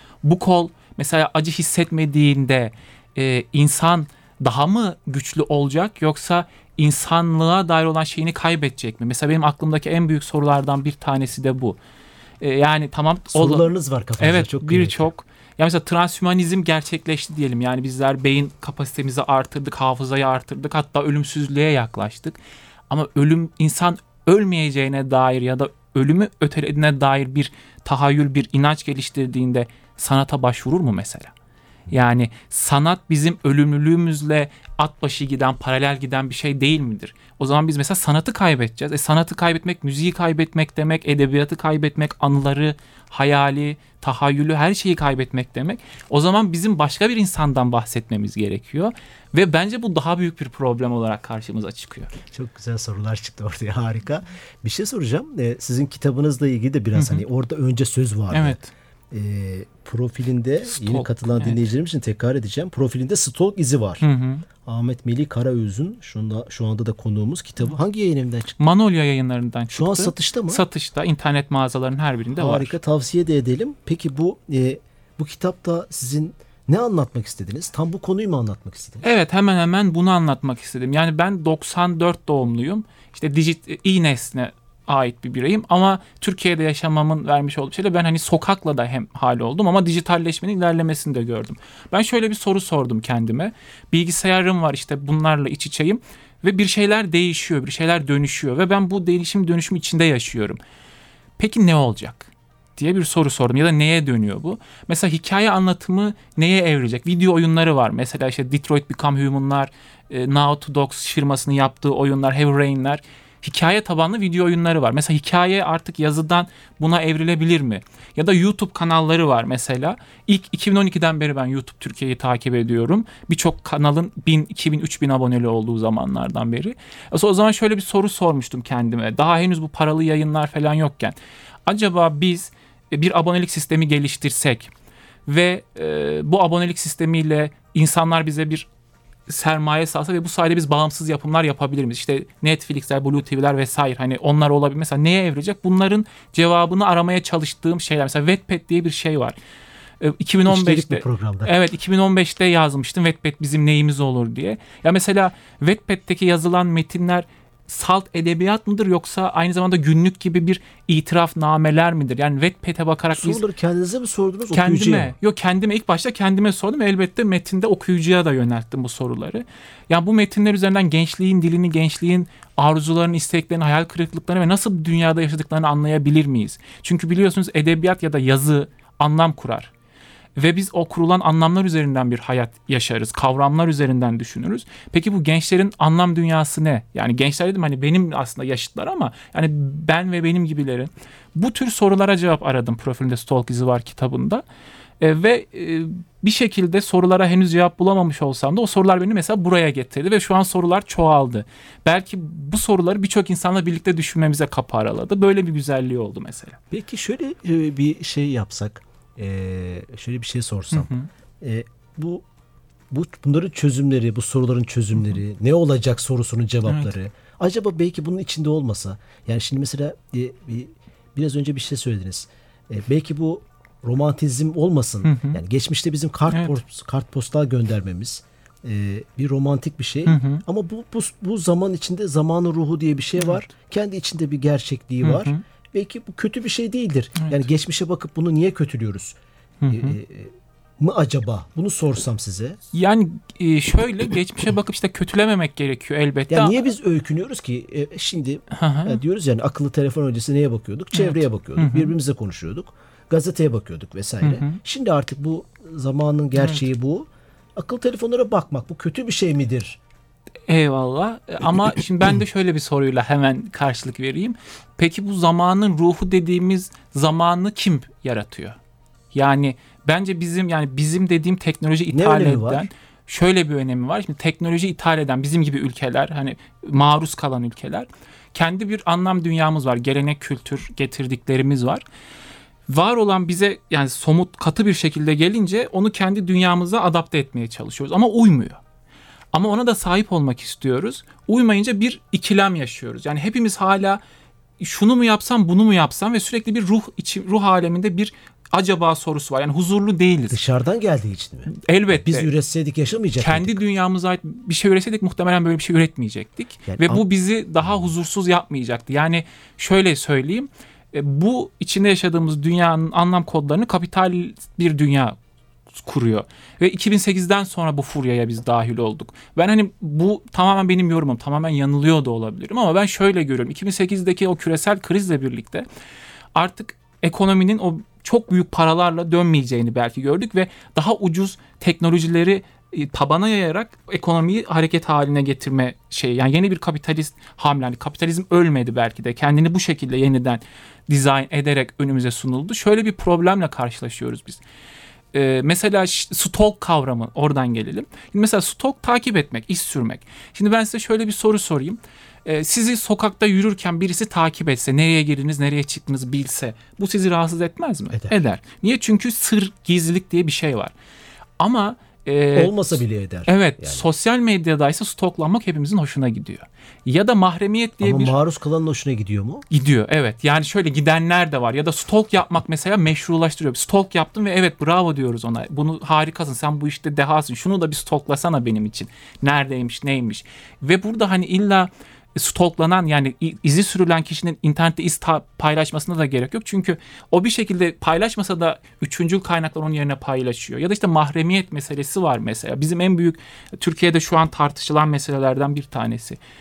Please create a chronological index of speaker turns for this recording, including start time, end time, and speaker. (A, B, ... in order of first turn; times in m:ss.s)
0:00.2-0:11.8 A
0:12.4-0:13.7 A
0:13.3-0:15.1 B
0:14.2-0:31.3 A
0:31.9-0:52.1 A
0:52.3-0:58.6 B
0:56.9-0:57.2 A
0:58.3-0:58.7 A
0:59.1-1:04.0 B
1:00.7-1:01.6 A
1:04.0-1:04.4 A
1:04.6-1:08.7 B
1:08.6-1:12.8 A
1:09.7-1:10.6 B
1:12.4-1:19.0 B
1:19.0-1:40.6 A
1:41.4-2:14.7 A
2:15.3-2:18.7 A
2:19.3-2:29.4 A
2:30.0-2:43.4 A
2:30.5-2:31.5 B
2:43.1-2:45.2 B
2:44.5-2:59.7 A
3:00.4-3:14.4 A
3:15.0-3:26.6 A
3:26.7-3:32.2 B
3:30.7-3:31.1 A
3:32.9-3:59.2 B
3:45.0-3:45.4 A
3:46.3-3:46.6 A
3:50.0-3:50.4 A
3:55.0-3:55.4 A
3:57.2-3:57.4 A
3:59.6-4:00.0 A
3:59.7-4:02.6 B
4:02.7-4:06.7 A
4:06.3-4:19.8 B
4:08.5-4:09.0 A
4:10.9-4:11.9 A
4:14.2-4:14.6 A
4:20.5-4:28.6 A
4:29.1-4:41.8 A
4:31.9-4:32.7 B
4:42.7-4:48.6 A
4:49.3-4:54.0 A
4:54.6-5:00.4 A
5:00.3-5:03.6 B
5:01.5-5:02.3 A
5:03.2-5:15.2 A
5:06.7-5:07.0 B
5:15.7-5:25.7 A
5:26.4-5:44.4 A
5:45.1-6:00.7 A
6:01.4-6:08.2 A
6:02.3-6:03.9 B
6:07.8-6:09.5 B
6:09.5-6:36.2 A